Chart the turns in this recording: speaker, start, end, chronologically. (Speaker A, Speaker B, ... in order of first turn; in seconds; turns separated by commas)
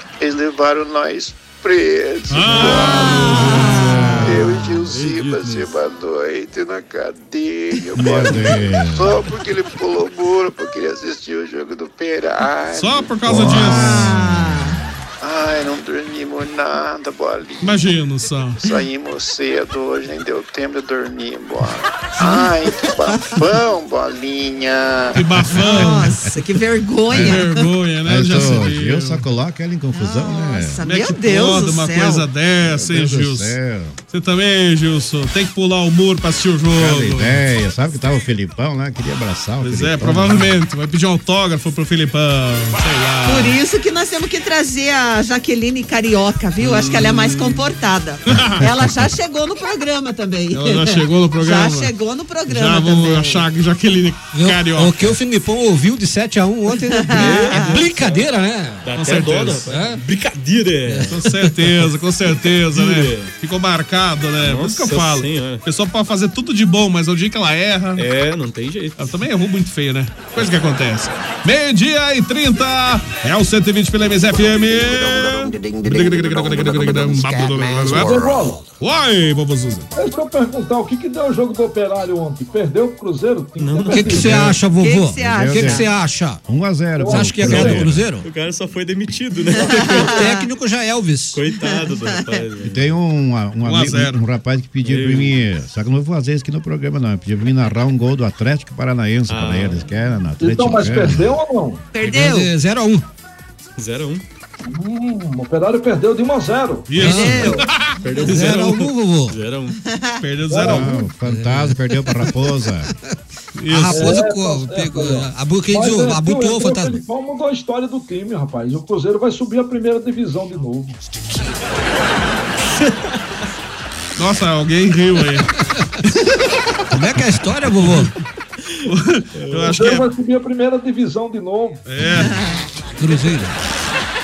Speaker A: 0.2-13.9, Speaker B: 2.3-4.3, Speaker C: 2.5-4.2, Speaker D: 3.7-4.5, Speaker E: 4.8-5.7, Speaker D: 7.9-9.2, Speaker B: 12.7-14.1, Speaker D: 13.3-14.9, Speaker C: 13.5-14.8, Speaker A: 15.2-17.8, Speaker B: 17.6-18.6, Speaker A: 18.6-25.3, Speaker C: 22.2-23.4, Speaker B: 25.1-26.1, Speaker C: 25.5-27.6, Speaker D: 25.6-26.1, Speaker D: 27.1-27.4, Speaker B: 27.1-29.2, Speaker D: 28.1-30.8, Speaker C: 29.9-32.2, Speaker B: 30.8-33.5, Speaker D: 32.6-34.0, Speaker B: 34.1-37.4, Speaker D: 36.8-40.5, Speaker B: 39.6-43.6, Speaker C: 43.2-53.4, Speaker B: 46.6-47.6, Speaker B: 48.3-48.6, Speaker B: 50.5-51.9, Speaker B: 52.5-55.1, Speaker F: 54.3-58.9, Speaker C: 56.9-57.8, Speaker E: 57.1-58.2, Speaker E: 58.8-61.2, Speaker B: 58.9-59.6, Speaker F: 59.7-60.0, Speaker F: 60.9-61.5, Speaker B: 61.1-68.1, Speaker E: 62.7-63.3, Speaker E: 64.4-65.6, Speaker E: 68.0-69.1, Speaker B: 69.0-78.2, Speaker G: 77.9-78.6, Speaker B: 78.8-79.9, Speaker G: 79.9-84.5, Speaker E: 83.6-84.2, Speaker F: 83.9-86.4, Speaker D: 84.2-84.6, Speaker C: 84.8-85.9, Speaker D: 85.2-85.9, Speaker D: 86.4-88.1, Speaker G: 87.0-87.8, Speaker F: 87.0-88.3, Speaker E: 87.4-90.2, Speaker C: 89.6-90.4, Speaker F: 90.0-91.4, Speaker E: 91.3-92.9, Speaker C: 91.6-92.4, Speaker D: 92.6-101.4, Speaker B: 93.6-94.2, Speaker E: 94.8-95.4, Speaker E: 99.3-99.8, Speaker G: 100.4-101.8, Speaker C: 101.9-102.5, Speaker F: 102.0-103.0, Speaker E: 103.8-104.2, Speaker G: 104.6-107.5, Speaker B: 106.9-108.0, Speaker F: 107.0-107.6, Speaker C: 107.0-107.7, Speaker E: 108.0-109.8, Speaker F: 108.2-109.4, Speaker C: 109.8-110.2, Speaker B: 110.2-110.9, Speaker G: 110.5-111.0, Speaker D: 110.7-112.9, Speaker F: 111.2-112.3, Speaker B: 113.5-114.2, Speaker F: 113.7-117.0, Speaker G: 113.9-121.0, Speaker B: 124.2-125.5, Speaker F: 126.9-128.1, Speaker B: 128.8-130.1, Speaker E: 129.3-129.7, Speaker G: 129.7-131.8, Speaker B: 131.8-132.4, Speaker F: 133.0-133.6